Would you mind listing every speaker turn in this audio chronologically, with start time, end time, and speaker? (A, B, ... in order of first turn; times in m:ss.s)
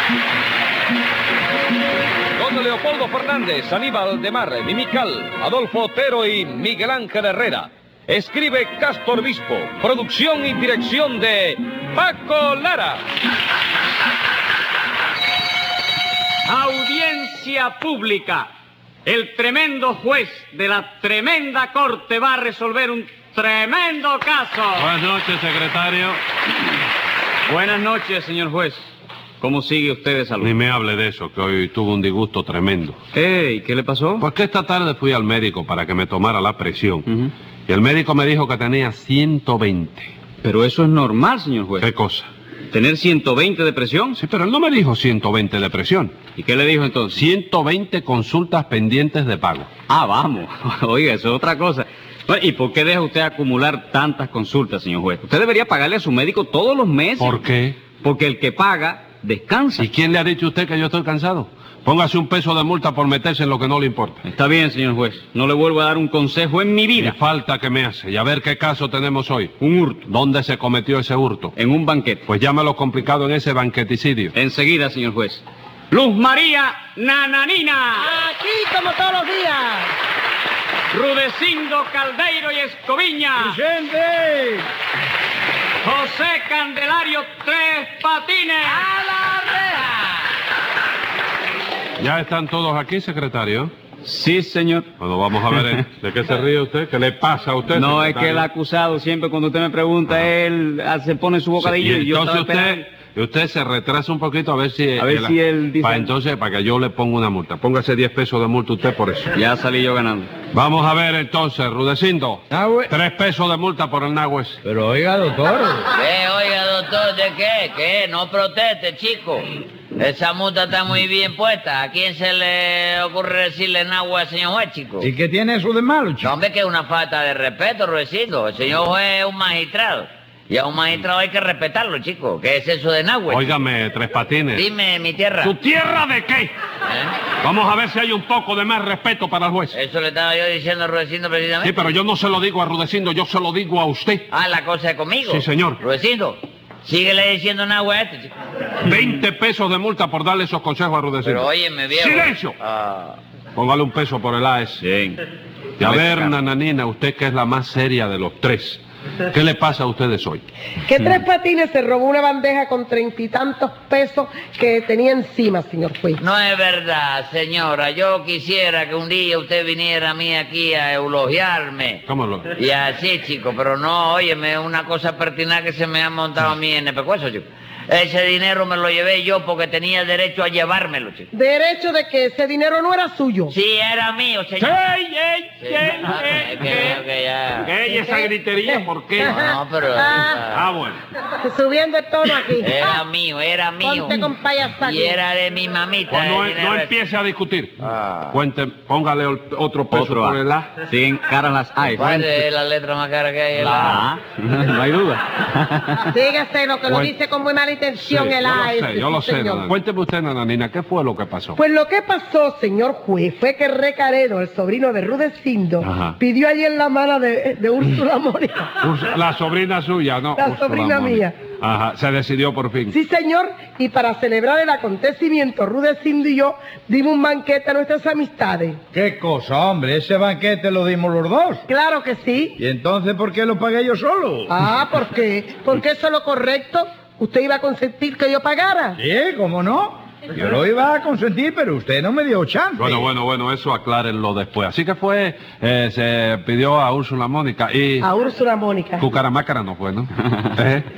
0:02.4-0:13.0 A
0:08.1-0:08.4 B
0:16.5-0:18.5 C
0:19.1-0:24.9 C
0:24.8-0:26.2 B
0:27.5-0:28.8 C
0:29.4-0:30.5 C
0:30.4-0:33.0 B
0:33.1-0:34.3 C
0:34.2-0:37.1 B
0:37.7-0:40.1 B
0:40.4-0:41.9 C
0:41.8-0:42.3 B
0:42.7-0:44.2 C
0:44.2-0:46.2 B
0:46.4-0:47.2 C
0:47.1-0:49.7 B
0:49.9-0:57.4 C
0:57.2-0:57.8 B
0:58.0-0:59.9 C
0:59.8-1:04.2 B
1:04.2-1:07.2 C
1:07.0-1:11.5 B
1:09.6-1:10.1 C
1:11.6-1:12.2 C
1:12.3-1:14.3 B
1:14.3-1:18.1 C
1:18.0-1:19.9 D
1:20.9-1:23.6 C
1:23.4-1:24.6 E
1:25.8-1:28.9 C
1:28.8-1:30.2 F
1:32.0-1:33.7 B
1:34.0-1:34.9 C
1:35.0-1:38.5 B
1:35.5-1:35.8 C
1:37.7-1:42.8 C
1:41.6-1:49.4 B
1:45.0-1:46.1 C
1:49.3-1:50.3 C
1:50.5-1:54.6 B
1:52.5-1:52.9 E
1:54.6-1:55.9 E
1:56.0-2:05.1 F
2:05.0-2:06.3 E
2:06.2-2:13.5 F
2:13.3-2:14.7 B
2:14.5-2:15.5 F
2:15.4-2:16.5 B
2:16.9-2:17.1 F
2:17.4-2:19.8 B
2:19.7-2:21.8 F
2:21.6-2:24.3 B
2:24.3-2:28.3 F
2:25.2-2:25.8 B
2:28.8-2:32.6 B
2:31.2-2:33.2 F
2:33.6-2:34.8 B
2:34.8-2:35.2 C
2:35.8-2:36.3 C
2:35.8-2:40.4 B
2:40.8-2:46.2 D
2:46.2-2:52.0 F
2:52.1-2:52.5 B
2:52.6-3:01.3 F
3:01.3-3:03.5 D
3:03.5-3:04.8 F
3:04.6-3:07.0 B
3:05.6-3:07.7 F
3:07.6-3:09.4 B
3:07.8-3:10.4 D
3:09.2-3:10.7 F
3:10.5-3:11.0 B
3:11.4-3:13.0 D
3:12.6-3:16.9 F
3:13.8-3:15.2 D
3:16.1-3:20.7 B
3:17.8-3:18.4 F
3:19.9-3:22.4 C
3:21.9-3:24.1 F
3:23.6-3:26.1 C
3:26.0-3:29.7 D
3:26.9-3:27.1 B
3:28.0-3:31.6 B
3:31.6-3:38.7 D
3:35.8-3:36.2 B
3:38.8-3:42.9 B
3:40.4-3:41.3 D
3:42.9-3:48.8 D
3:48.9-3:51.6 E
3:51.7-3:52.6 D
3:52.6-3:54.6 E
3:54.5-3:59.0 D
3:59.0-4:03.1 E
4:02.8-4:08.1 B
4:08.0-4:09.1 D
4:09.0-4:10.9 B